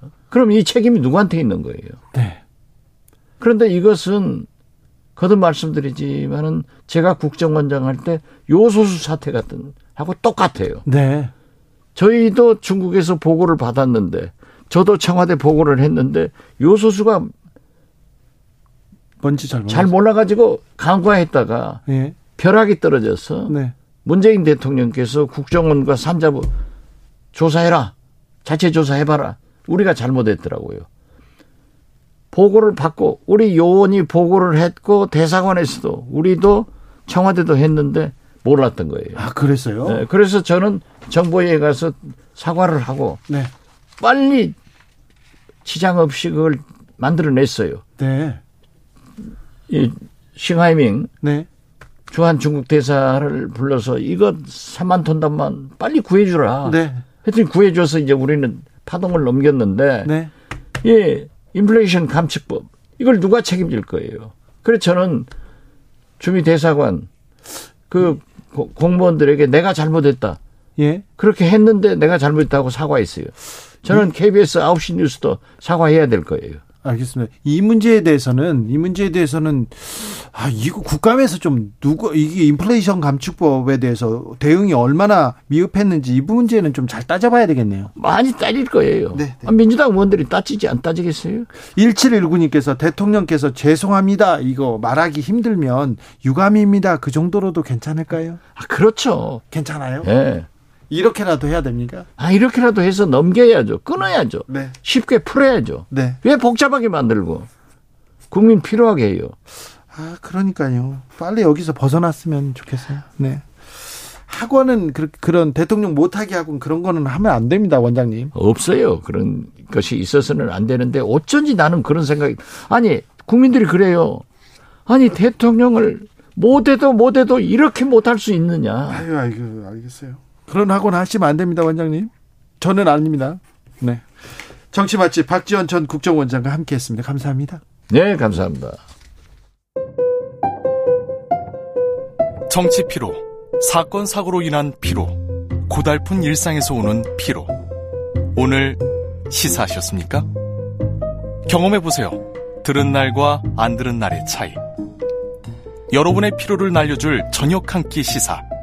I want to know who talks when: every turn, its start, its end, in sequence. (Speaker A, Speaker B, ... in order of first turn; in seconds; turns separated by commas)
Speaker A: 0.3-2.0, Speaker B: 2.1-2.4, Speaker A: 3.4-4.5, Speaker A: 5.2-10.8, Speaker B: 10.8-11.3, Speaker A: 11.9-17.3, Speaker B: 19.2-19.9, Speaker A: 19.7-26.5, Speaker B: 21.9-22.2, Speaker B: 23.5-23.7, Speaker A: 27.3-27.9, Speaker A: 28.4-30.9, Speaker A: 32.3-39.2, Speaker B: 39.1-40.0, Speaker A: 39.9-43.2, Speaker A: 44.0-44.5, Speaker A: 45.6-47.8, Speaker B: 48.0-48.4, Speaker A: 49.7-51.1, Speaker B: 51.2-51.5, Speaker A: 52.1-60.1, Speaker B: 56.6-57.0, Speaker B: 60.0-60.3, Speaker A: 60.8-65.3, Speaker A: 66.2-67.1, Speaker A: 67.9-70.4, Speaker B: 70.8-71.0, Speaker A: 71.2-76.6, Speaker B: 76.8-87.9, Speaker A: 87.9-91.5, Speaker B: 89.1-89.5, Speaker B: 91.8-98.4, Speaker A: 98.5-99.4, Speaker B: 99.5-100.1, Speaker A: 100.0-100.5, Speaker B: 100.9-102.1, Speaker A: 102.2-107.5, Speaker B: 104.5-104.7, Speaker B: 105.9-106.2, Speaker A: 108.3-109.3, Speaker B: 109.9-113.5, Speaker B: 114.2-118.3, Speaker A: 118.3-124.2, Speaker A: 124.9-129.0, Speaker B: 128.9-134.0, Speaker B: 134.7-137.6, Speaker A: 137.9-138.8, Speaker C: 142.5-147.5, Speaker C: 148.3-150.3, Speaker C: 151.4-154.6, Speaker C: 155.9-158.4